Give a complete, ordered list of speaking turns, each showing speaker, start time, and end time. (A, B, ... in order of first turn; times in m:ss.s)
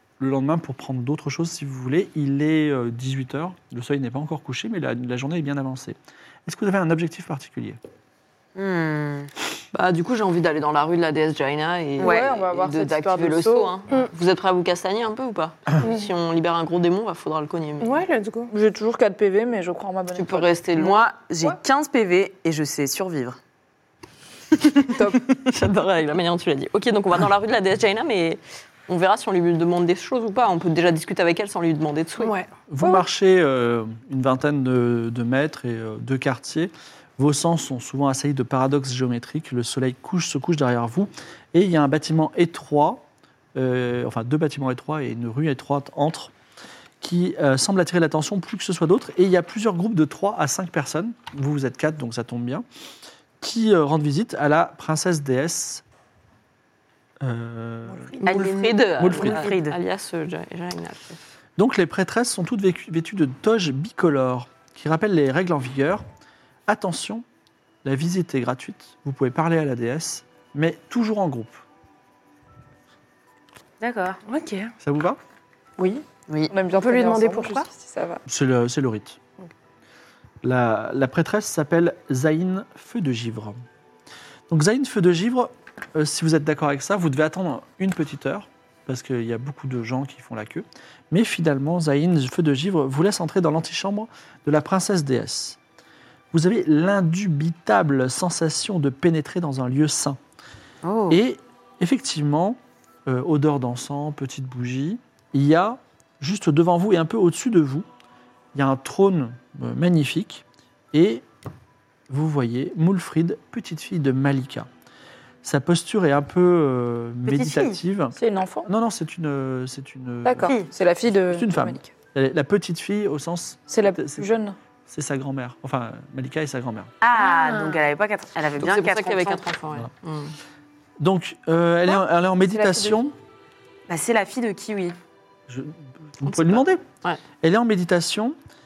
0:00.2-0:07.8 A
0:08.6-0:09.3 B
0:09.7-0:18.0 C
0:12.0-0:13.7 D
0:12.0-0:12.2 B
0:17.8-0:18.5 E
0:18.5-0:20.6 D
0:20.1-0:21.0 C
0:20.8-0:23.4 B
0:24.9-0:25.2 D
0:25.1-0:32.3 C
0:32.2-0:32.5 E
0:32.7-0:46.3 A
0:47.0-0:52.6 A
0:53.4-0:55.8 A
0:57.2-0:58.2 A
0:57.9-0:58.5 E
0:58.2-0:59.8 B
0:58.2-1:01.2 C
0:59.0-0:59.5 A
1:01.6-1:06.0 A
1:06.7-1:07.2 A
1:07.8-1:11.6 A
1:13.8-1:14.2 B
1:14.2-1:14.7 E
1:14.8-1:15.2 A
1:15.8-1:18.2 D
1:16.7-1:17.7 E
1:18.3-1:19.2 A
1:20.4-1:23.6 A
1:24.5-1:35.6 A
1:36.3-1:40.2 A
1:40.8-1:41.2 B
1:41.1-1:47.8 A
1:48.5-1:51.2 A
1:52.1-1:54.7 A
1:55.4-2:00.5 A
1:57.2-1:57.8 B
1:58.2-1:58.7 D
2:00.2-2:01.9 D
2:01.3-2:04.3 A
2:03.7-2:04.6 D
2:04.9-2:06.9 A
2:07.0-2:09.4 B
2:07.3-2:07.7 E
2:08.6-2:10.3 C
2:11.0-2:13.1 A
2:12.4-2:13.0 D
2:13.9-2:15.0 B
2:15.5-2:16.8 A
2:17.4-2:18.4 A